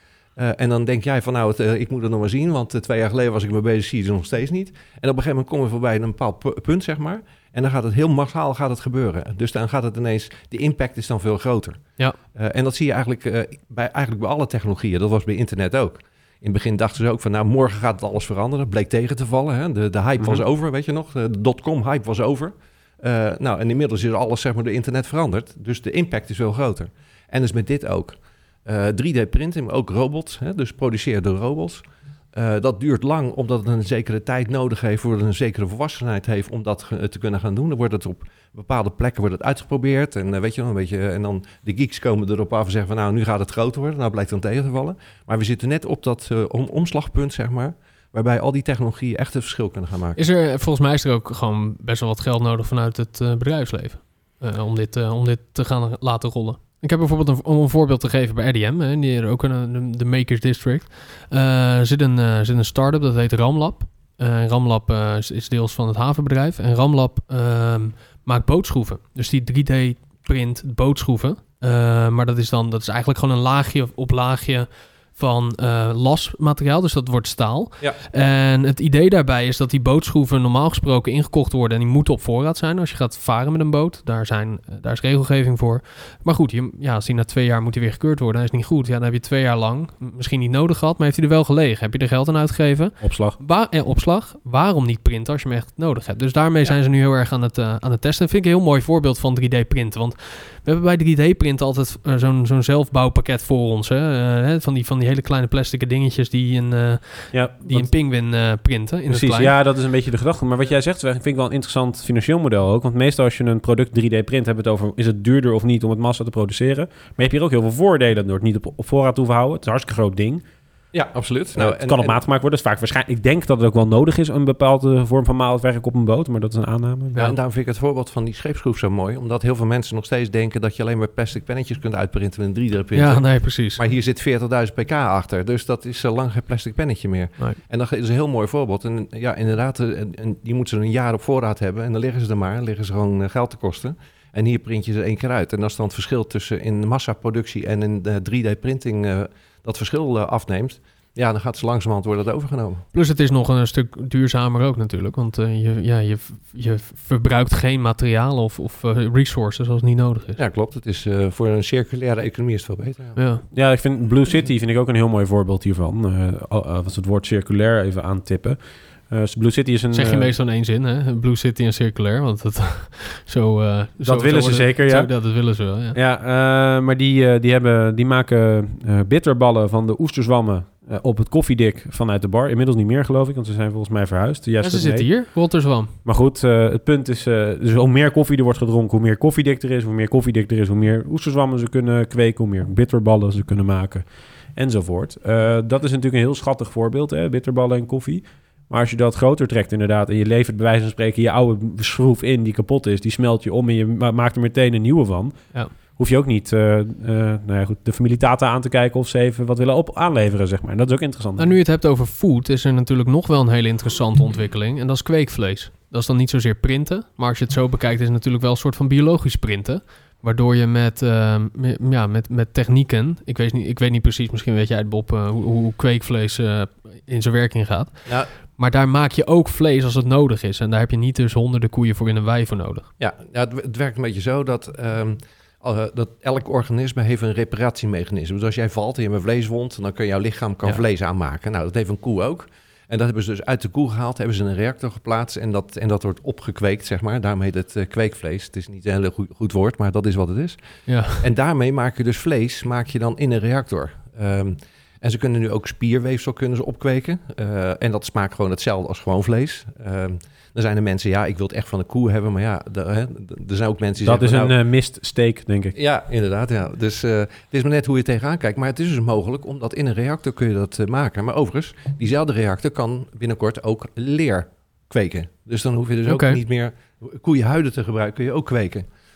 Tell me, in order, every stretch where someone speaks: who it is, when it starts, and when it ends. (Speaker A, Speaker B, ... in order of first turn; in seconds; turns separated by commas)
Speaker A: 0.4-50.2, Speaker B: 50.2-109.5, Speaker C: 93.0-93.4, Speaker C: 107.3-107.9, Speaker C: 109.1-120.4, Speaker A: 120.9-122.2, Speaker C: 121.5-127.3, Speaker A: 127.2-152.9, Speaker B: 132.9-133.8, Speaker B: 152.9-160.4, Speaker A: 160.4-163.2, Speaker B: 163.2-163.4, Speaker C: 163.5-170.3, Speaker B: 169.9-176.0, Speaker C: 174.0-211.6, Speaker B: 184.6-185.9, Speaker B: 211.4-232.9, Speaker A: 228.1-228.3, Speaker A: 233.0-264.5, Speaker B: 250.9-251.2, Speaker C: 264.0-265.8, Speaker A: 265.8-278.9, Speaker B: 276.1-276.4